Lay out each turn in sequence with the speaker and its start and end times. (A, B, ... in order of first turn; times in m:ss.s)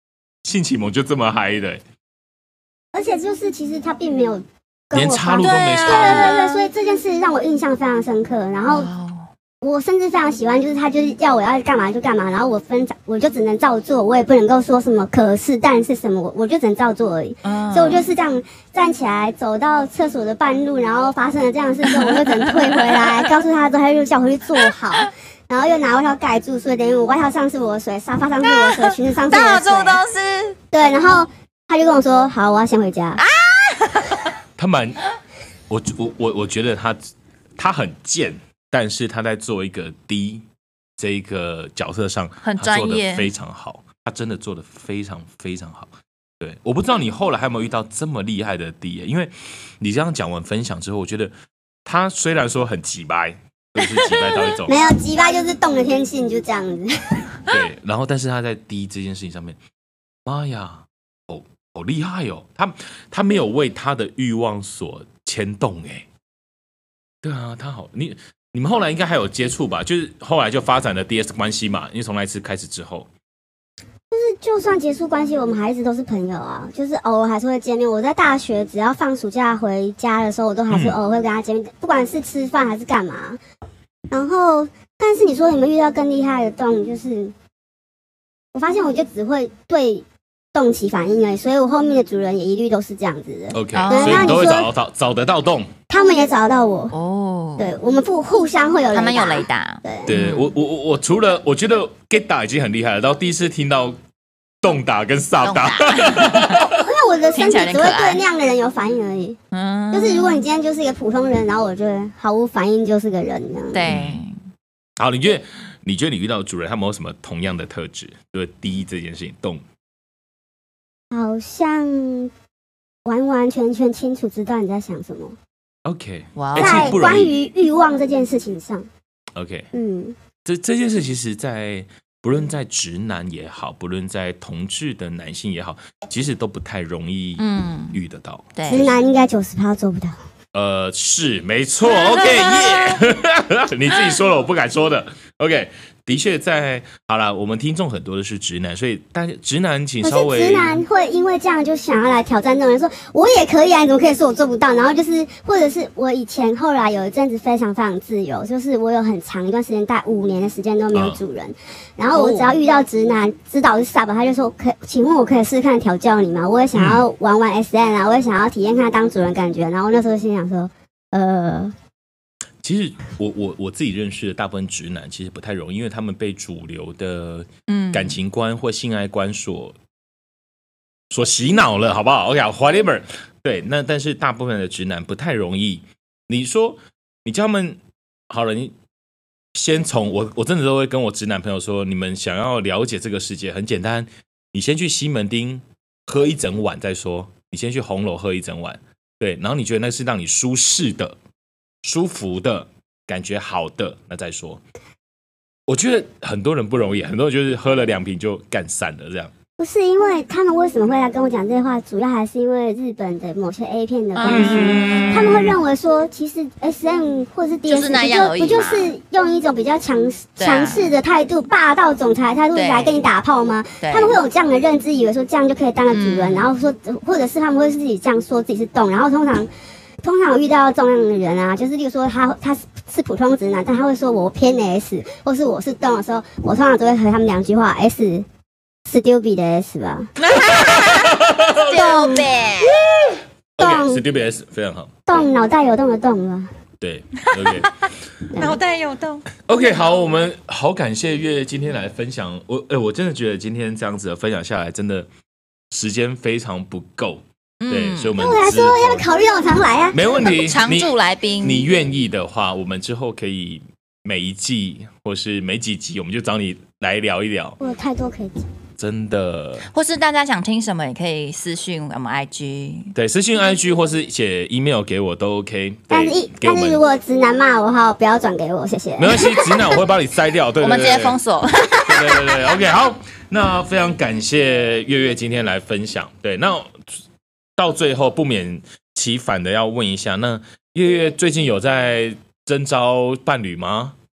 0:00.4-0:01.8 A
0:02.9-0:08.9 B
0:04.9-0:06.4 A
0:05.4-0:06.6 C
0:08.7-0:09.3 C
0:09.6-0:30.0 B
0:17.4-0:18.1 C
0:22.1-0:23.2 C
0:28.5-0:30.6 C
0:30.7-0:33.2 B
0:33.2-0:34.3 C
0:34.6-0:35.0 A
0:35.7-0:37.0 A
0:37.6-0:40.4 A
0:41.0-0:51.3 A
0:42.4-0:43.3 C
0:51.8-0:54.8 A
0:54.0-0:54.6 C
0:54.7-0:57.2 B
0:57.5-0:59.6 A
1:00.2-1:06.1 A
1:07.2-1:13.1 A
1:14.1-1:23.4 B
1:20.7-1:21.0 A
1:24.1-1:27.3 B
1:28.5-1:34.7 B
1:33.5-1:35.7 A
1:33.7-1:34.4 C
1:35.9-1:36.9 B
1:36.9-1:37.7 C
1:37.6-1:40.1 B
1:38.9-1:40.5 C
1:40.1-1:44.0 A
1:44.6-1:46.8 A
1:45.4-1:46.6 C
1:46.6-1:49.4 B
1:47.4-1:48.2 C
1:49.5-1:50.4 C
1:49.9-1:53.8 B
1:53.7-1:54.4 C
1:53.9-1:54.2 A
1:55.0-1:59.6 A
2:01.1-2:02.3 B
2:03.0-2:05.4 B
2:05.8-2:07.3 A
2:06.4-2:07.0 C
2:06.6-2:08.9 B
2:09.4-2:09.7 A
2:09.7-2:10.2 B
2:10.4-2:18.5 A
2:17.4-2:18.0 C
2:18.6-2:18.9 C
2:18.7-2:20.2 B
2:20.5-2:30.8 A
2:30.0-2:51.7 B
2:40.9-2:41.2 A
2:42.1-2:42.5 C
2:46.8-2:47.0 A
2:52.6-2:59.8 A
2:57.7-2:58.2 C
3:01.1-3:08.7 A
3:09.5-3:21.2 A
3:21.8-3:24.6 A
3:25.7-3:29.3 A
3:29.6-3:49.5 B
3:34.2-3:35.5 C
3:34.3-3:35.5 A
3:37.7-3:38.9 C
3:40.4-3:41.0 C
3:42.5-3:43.0 C
3:43.8-3:44.2 C
3:45.9-3:46.5 C
3:50.0-3:58.2 B
3:58.9-4:00.1 B
4:00.2-4:02.8 C
4:00.4-4:02.0 A
4:01.7-4:04.0 B
4:03.6-4:05.3 A
4:05.1-4:06.5 B
4:06.8-4:07.7 A
4:07.3-4:07.7 C
4:08.3-4:08.6 B
4:08.3-4:09.3 C
4:09.5-4:15.1 A
4:15.7-4:19.1 A
4:17.6-4:18.2 C
4:18.2-4:20.3 B
4:19.9-4:27.6 A
4:20.2-4:21.6 C
4:27.6-4:28.4 B
4:28.8-4:29.7 A
4:29.7-4:32.9 C
4:33.0-4:36.8 A
4:35.9-4:39.8 B
4:39.0-4:41.2 A
4:40.6-4:42.4 C
4:41.9-4:46.9 A
4:47.6-4:54.0 A